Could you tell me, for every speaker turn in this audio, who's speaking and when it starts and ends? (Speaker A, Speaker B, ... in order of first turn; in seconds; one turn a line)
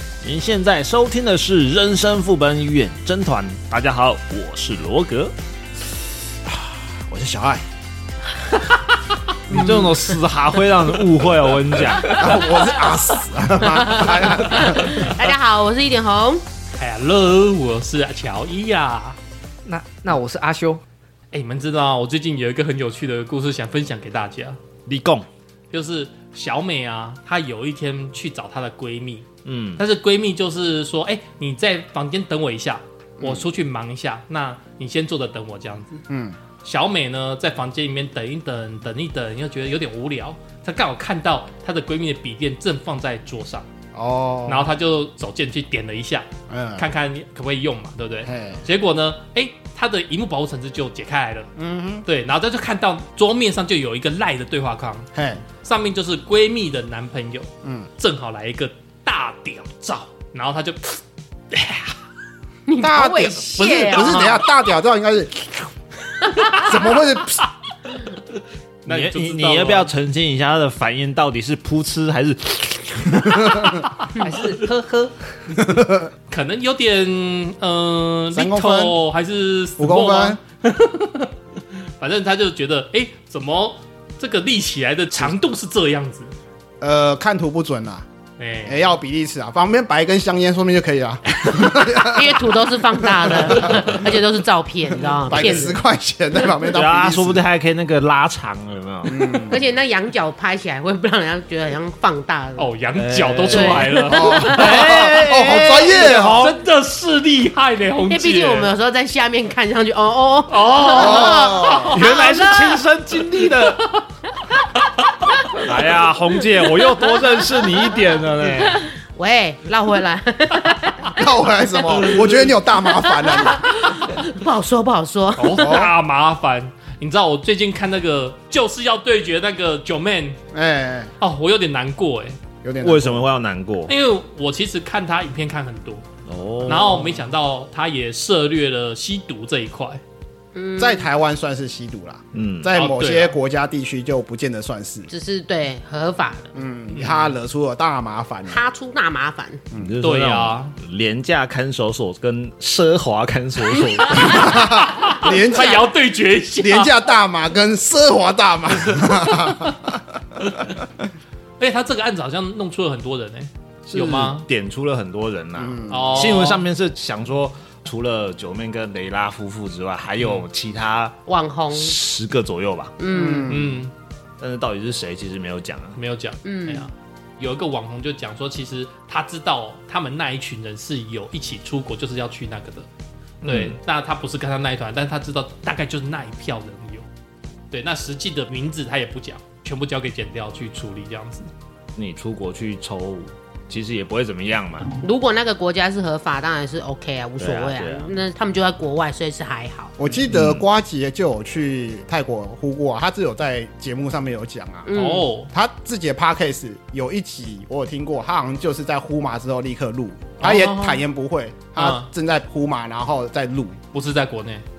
Speaker A: 0.2-5.3
Speaker B: 6.5-7.6
Speaker A: 9.5-12.3
Speaker C: 9.5-10.1
Speaker B: 12.1-15.0
Speaker C: 13.7-16.4
Speaker D: 16.8-19.2
Speaker E: 19.6-20.8
Speaker D: 21.3-24.6
Speaker A: 24.9-25.2
Speaker D: 25.7-36.0
Speaker A: 29.4-29.8
Speaker B: 36.1-36.4
Speaker D: 36.6-43.7
Speaker B: 44.0-44.7
Speaker D: 44.5-51.5
Speaker B: 46.5-46.9
Speaker B: 48.2-48.6
Speaker B: 51.6-52.1
Speaker D: 52.1-55.1
Speaker B: 55.1-55.4
Speaker D: 55.6-61.0
Speaker D: 61.5-61.9
Speaker C: 62.7-64.5
Speaker B: 62.8-65.7
Speaker B: 66.5-67.4
Speaker D: 68.9-69.9
Speaker A: 68.9-73.8
Speaker B: 73.5-73.7
Speaker E: 74.2-75.4
Speaker B: 75.6-76.1
Speaker D: 76.3-81.3
Speaker B: 78.3-79.0
Speaker B: 79.8-80.4
Speaker D: 82.0-86.3
Speaker B: 86.8-88.1
Speaker D: 88.4-88.9
Speaker B: 88.7-92.5
Speaker C: 91.5-95.8
Speaker B: 93.0-94.1
Speaker B: 95.3-97.4
Speaker A: 96.7-99.2
Speaker B: 99.1-99.6
Speaker C: 99.4-102.7
Speaker D: 102.6-105.8
Speaker A: 102.9-106.5
Speaker C: 103.5-104.8
Speaker B: 104.4-106.5
Speaker D: 106.4-108.7
Speaker C: 108.1-112.8
Speaker D: 110.5-111.9
Speaker B: 110.9-112.0
Speaker A: 111.9-113.9
Speaker D: 113.4-114.0
Speaker A: 115.5-118.9
Speaker C: 118.7-122.1
Speaker B: 121.1-123.8
Speaker C: 122.8-125.8
Speaker D: 125.4-130.4
Speaker B: 125.5-125.9
Speaker B: 130.5-131.1
Speaker D: 131.2-132.4
Speaker B: 132.6-133.2
Speaker A: 132.8-133.9
Speaker D: 133.9-136.1
Speaker A: 136.3-137.1
Speaker D: 136.6-140.0
Speaker C: 140.5-141.0
Speaker B: 140.8-145.1
Speaker A: 142.3-142.7
Speaker D: 142.7-143.3
Speaker C: 145.1-146.5
Speaker B: 146.5-148.6
Speaker D: 146.9-147.3
Speaker C: 148.5-149.7
Speaker A: 149.8-154.7
Speaker D: 150.0-150.8
Speaker B: 154.3-155.9
Speaker D: 154.4-156.9
Speaker B: 156.6-160.2
Speaker D: 158.9-159.7
Speaker D: 160.4-160.8
Speaker D: 161.6-164.4
Speaker A: 163.8-171.2
Speaker B: 165.6-166.3
Speaker D: 165.9-166.6
Speaker C: 171.2-171.9
Speaker A: 171.7-172.9
Speaker C: 173.0-173.6
Speaker B: 173.1-173.8
Speaker D: 173.4-173.9
Speaker A: 174.4-176.0
Speaker D: 176.0-182.9
Speaker C: 176.4-176.9
Speaker D: 183.4-187.0
Speaker A: 183.4-183.8
Speaker D: 187.7-191.5
Speaker A: 191.9-195.0
Speaker C: 195.0-199.9
Speaker A: 197.4-198.1
Speaker B: 200.0-204.9
Speaker A: 200.3-200.6
Speaker C: 204.8-205.3
Speaker D: 204.9-205.5
Speaker B: 205.5-213.8
Speaker D: 210.4-211.0
Speaker D: 211.8-212.1
Speaker D: 213.9-214.6